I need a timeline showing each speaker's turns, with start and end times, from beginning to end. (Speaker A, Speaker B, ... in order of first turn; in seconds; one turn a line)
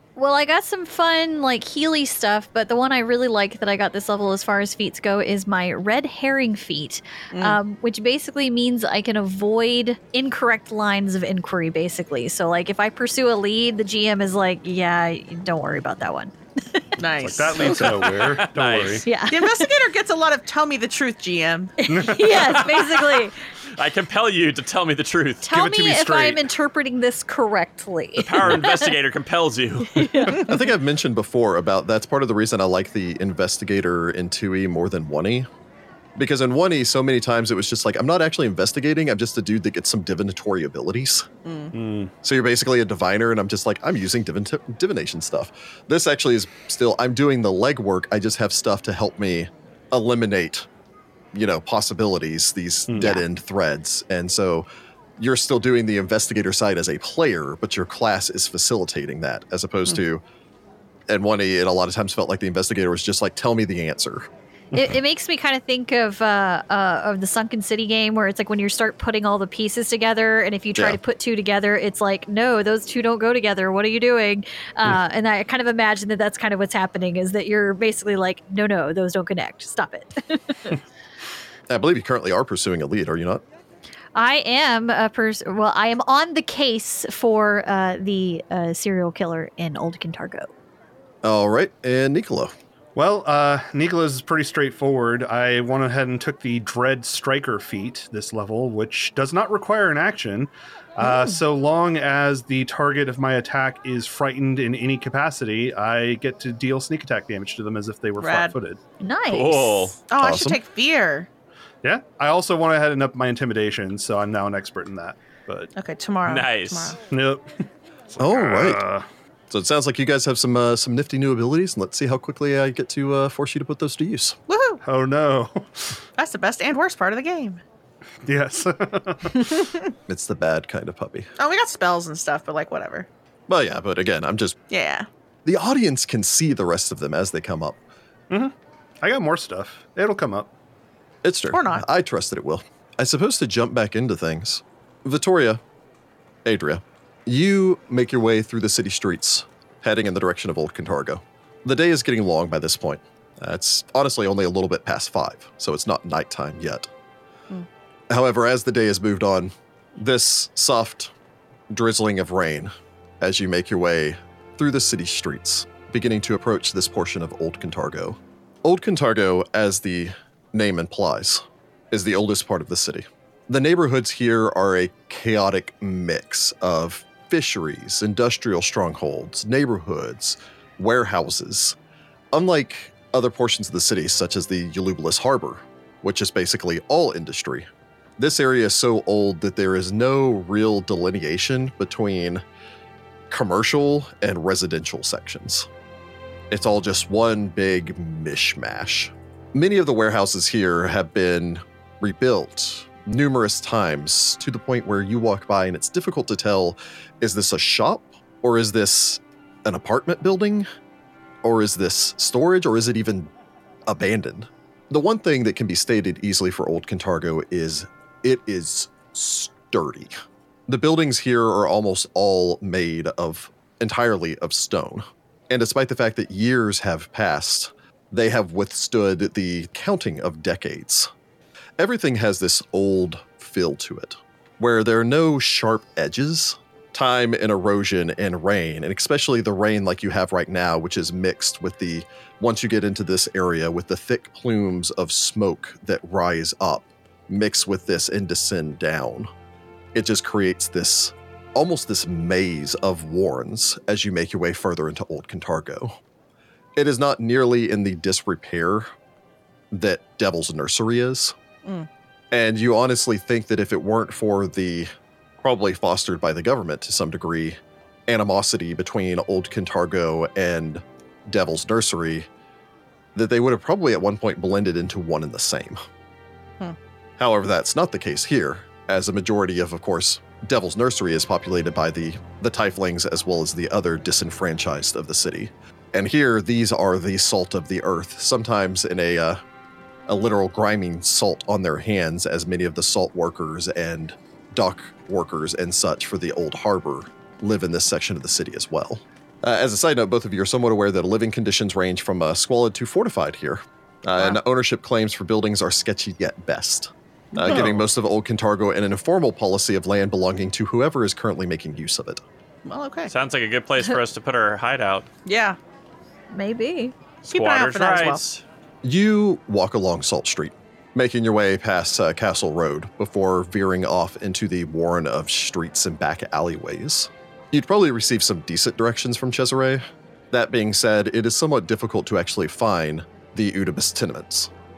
Speaker A: 0.1-17.0
Speaker B: 7.3-7.6
Speaker B: 17.0-18.0
Speaker C: 17.2-19.1
Speaker D: 18.0-19.0
Speaker A: 19.0-19.6
Speaker B: 19.3-21.8
Speaker A: 21.8-23.4
Speaker C: 21.9-22.7
Speaker D: 22.4-25.4
Speaker A: 25.4-28.9
Speaker C: 25.5-26.4
Speaker D: 28.2-30.3
Speaker A: 29.9-30.5
Speaker E: 30.4-35.5
Speaker E: 36.2-41.3
Speaker B: 41.4-41.7
Speaker C: 41.7-42.1
Speaker E: 42.2-50.7
Speaker E: 51.3-54.7
Speaker C: 52.9-53.1
Speaker A: 53.0-53.2
Speaker E: 55.2-60.2
Speaker E: 61.1-64.3
Speaker A: 64.7-80.8
Speaker E: 81.7-83.4
Speaker A: 84.1-90.5
Speaker E: 91.2-92.5
Speaker C: 92.9-108.8
Speaker B: 108.2-108.5
Speaker A: 109.0-110.0
Speaker D: 109.3-110.0
Speaker B: 110.1-111.3
Speaker E: 110.2-110.6
Speaker C: 111.8-115.7
Speaker B: 115.7-117.0
Speaker D: 116.2-117.0
Speaker C: 117.1-117.5
Speaker C: 118.1-119.0
Speaker E: 118.2-118.8
Speaker E: 119.5-124.4
Speaker B: 124.5-124.8
Speaker C: 124.8-126.0
Speaker B: 126.2-127.6
Speaker C: 128.2-129.6
Speaker B: 129.4-129.9
Speaker E: 130.1-131.3
Speaker B: 131.4-133.1
Speaker E: 133.5-134.6
Speaker B: 134.7-135.1
Speaker E: 135.4-137.8
Speaker C: 138.3-140.5
Speaker E: 141.2-145.6
Speaker B: 141.5-141.8
Speaker E: 146.4-156.9
Speaker E: 158.1-161.1
Speaker E: 161.7-181.8
Speaker E: 182.3-192.4
Speaker E: 193.3-195.7
Speaker E: 196.5-210.7
Speaker E: 211.4-213.3
Speaker E: 213.9-220.1
Speaker E: 220.7-231.1
Speaker E: 231.8-249.3
Speaker E: 249.9-256.0
Speaker E: 256.8-258.9
Speaker E: 259.7-261.3
Speaker E: 262.3-272.3
Speaker E: 273.1-275.8
Speaker E: 277.2-289.4
Speaker E: 290.1-312.2
Speaker C: 307.4-307.7
Speaker B: 312.6-313.1
Speaker D: 313.1-315.1
Speaker B: 315.2-315.6
Speaker A: 316.3-316.9
Speaker B: 317.2-318.2
Speaker D: 317.3-318.4
Speaker E: 318.8-334.5